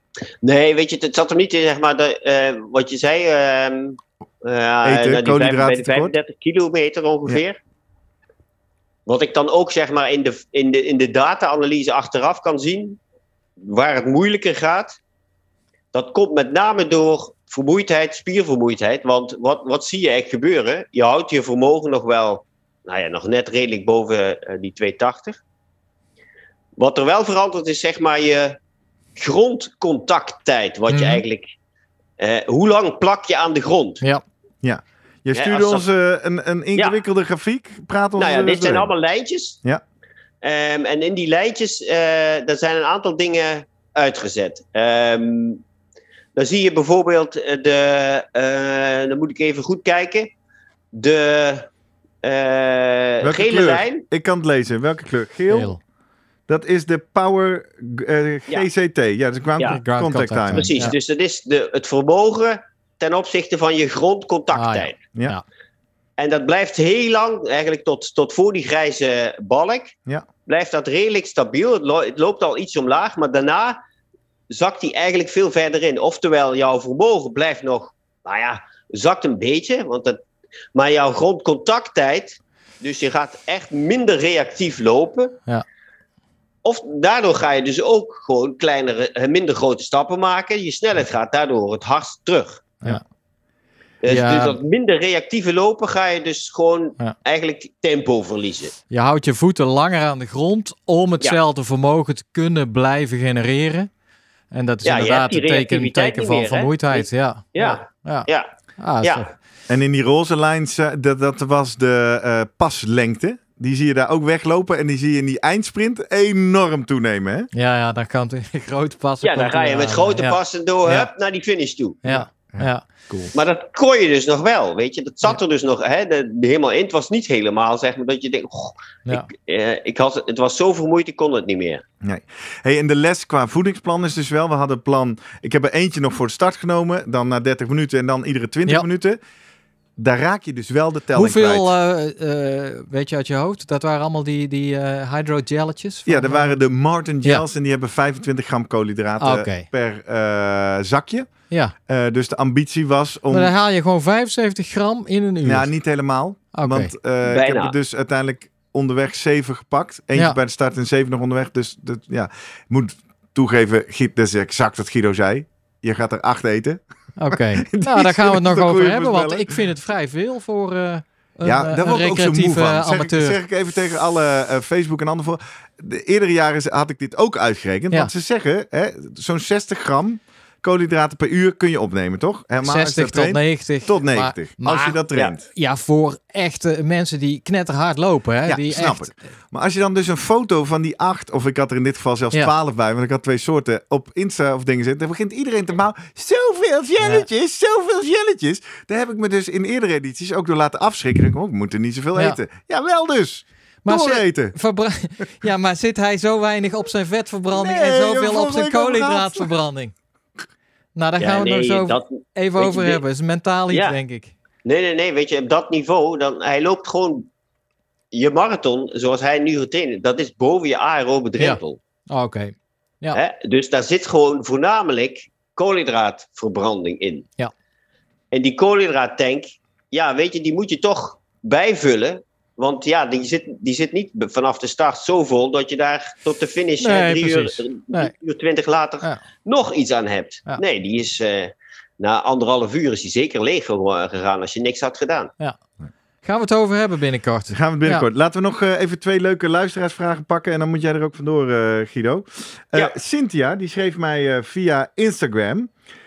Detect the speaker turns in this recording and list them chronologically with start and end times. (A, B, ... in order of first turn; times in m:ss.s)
0:00.4-0:07.6 A
0:04.8-0:06.2 B
0:09.1-0:13.0 A
0:13.6-0:15.0 A
0:15.9-0:25.4 A
0:26.8-0:28.6 A
0:29.2-0:31.5 A
0:30.9-0:31.2 C
0:32.2-0:34.0 A
0:34.6-0:38.9 B
0:35.3-0:35.8 A
0:38.2-0:39.6 A
0:40.4-0:45.6 A
0:46.4-0:50.3 A
0:50.9-0:51.7 A
0:52.2-0:54.0 A
0:53.2-0:55.7 B
0:55.5-0:55.8 C
0:56.5-1:00.7 B
0:59.6-1:00.9 C
1:00.5-1:05.0 A
1:04.5-1:05.4 C
1:06.2-1:10.0 A
1:10.5-1:13.8 A
1:14.5-1:20.2 A
1:20.7-1:25.4 A
1:26.6-1:32.7 A
1:34.0-1:38.7 A
1:34.1-1:34.6 C
1:38.9-1:43.9 C
1:44.5-1:48.3 C
1:44.8-1:48.5 A
1:48.8-1:49.3 C
1:49.7-1:57.5 B
1:57.5-2:01.1 C
1:59.2-2:02.2 A
2:02.0-2:02.8 C
2:02.5-2:03.3 B
2:03.3-2:11.8 A
2:12.0-2:19.2 B
2:20.0-2:21.7 B
2:21.1-2:26.6 C
2:26.0-2:31.3 B
2:29.2-2:29.7 C
2:31.9-2:33.5 B
2:33.3-2:35.7 C
2:35.4-2:46.8 B
2:36.5-2:36.9 C
2:37.2-2:37.7 A
2:47.2-2:53.4 C
2:47.3-2:49.5 B
2:51.4-3:05.5 B
3:02.6-3:09.1 C
3:08.5-3:24.6 B
3:17.0-3:17.2 C
3:23.8-3:29.9 C
3:27.5-3:29.5 B
3:31.0-3:34.3 C
3:31.2-3:33.0 A
3:34.6-3:37.3 A
3:38.1-3:41.8 A
3:41.4-3:43.2 C
3:43.1-3:47.3 A
3:48.3-4:05.3 A
3:56.8-3:58.1 C
4:06.2-4:08.0 C
4:07.5-4:15.7 B